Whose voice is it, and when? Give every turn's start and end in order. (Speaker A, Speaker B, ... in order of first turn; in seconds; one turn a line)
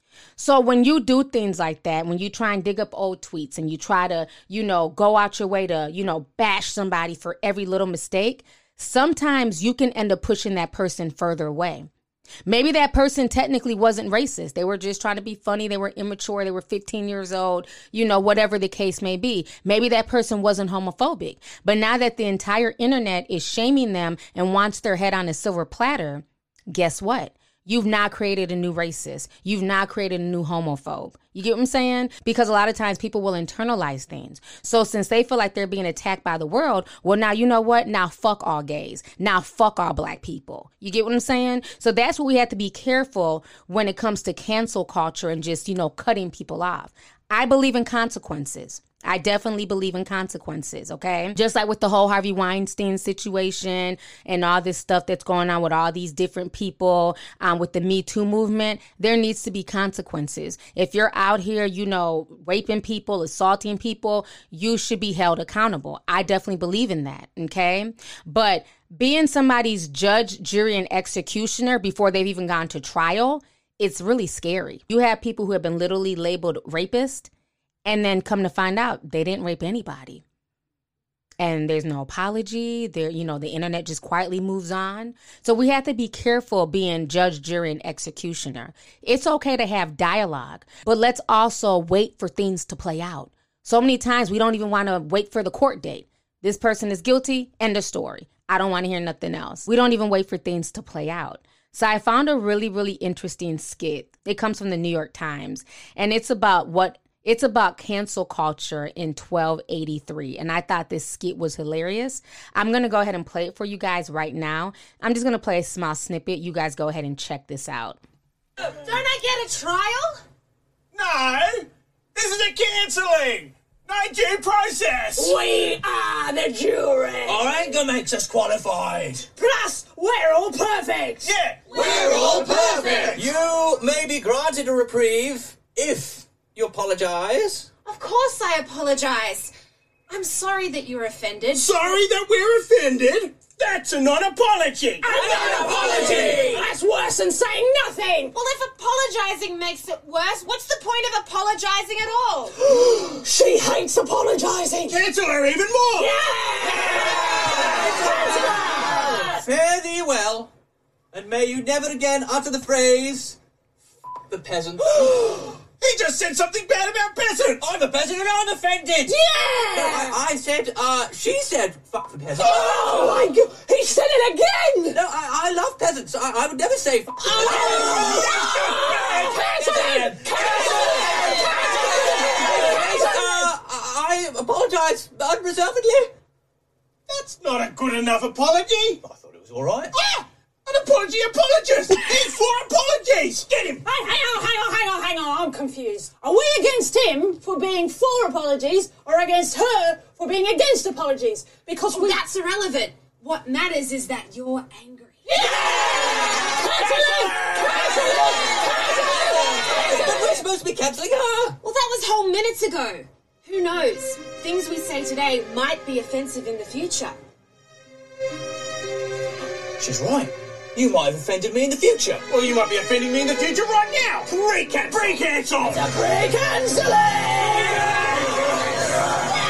Speaker A: 0.4-11.9
Speaker A: 12.4-77.3
Speaker A: 77.8-80.2
Speaker A: 81.4-118.0
Speaker B: 118.7-120.2
Speaker C: 120.9-125.3
Speaker D: 125.2-127.8
Speaker E: 127.2-129.3
Speaker D: 129.3-133.2
Speaker C: 131.2-133.3
Speaker E: 132.2-137.7
Speaker B: 137.8-139.5
Speaker B: 140.1-142.0
Speaker C: 141.5-146.6
Speaker D: 145.0-148.4
Speaker B: 148.3-152.6
Speaker D: 152.7-155.0
Speaker C: 154.8-156.2
Speaker D: 155.9-159.4
Speaker C: 156.8-157.6
Speaker E: 157.6-160.5
Speaker E: 161.1-163.4
Speaker E: 164.3-165.5
Speaker C: 165.5-167.8
Speaker E: 167.6-169.2
Speaker D: 169.0-170.2
Speaker E: 169.7-173.3
Speaker D: 172.3-175.0
Speaker E: 174.9-178.2
Speaker D: 177.2-183.5
Speaker C: 178.1-179.4
Speaker E: 178.8-186.1
Speaker C: 187.1-189.0
Speaker E: 189.0-189.9
Speaker C: 190.0-193.8
Speaker D: 191.9-192.3
Speaker D: 193.8-202.2
Speaker B: 201.9-206.4
Speaker D: 205.4-209.8
Speaker E: 207.3-207.8
Speaker E: 209.6-211.6
Speaker B: 211.6-217.2
Speaker E: 219.8-222.2
Speaker C: 222.3-225.8
Speaker D: 225.7-228.0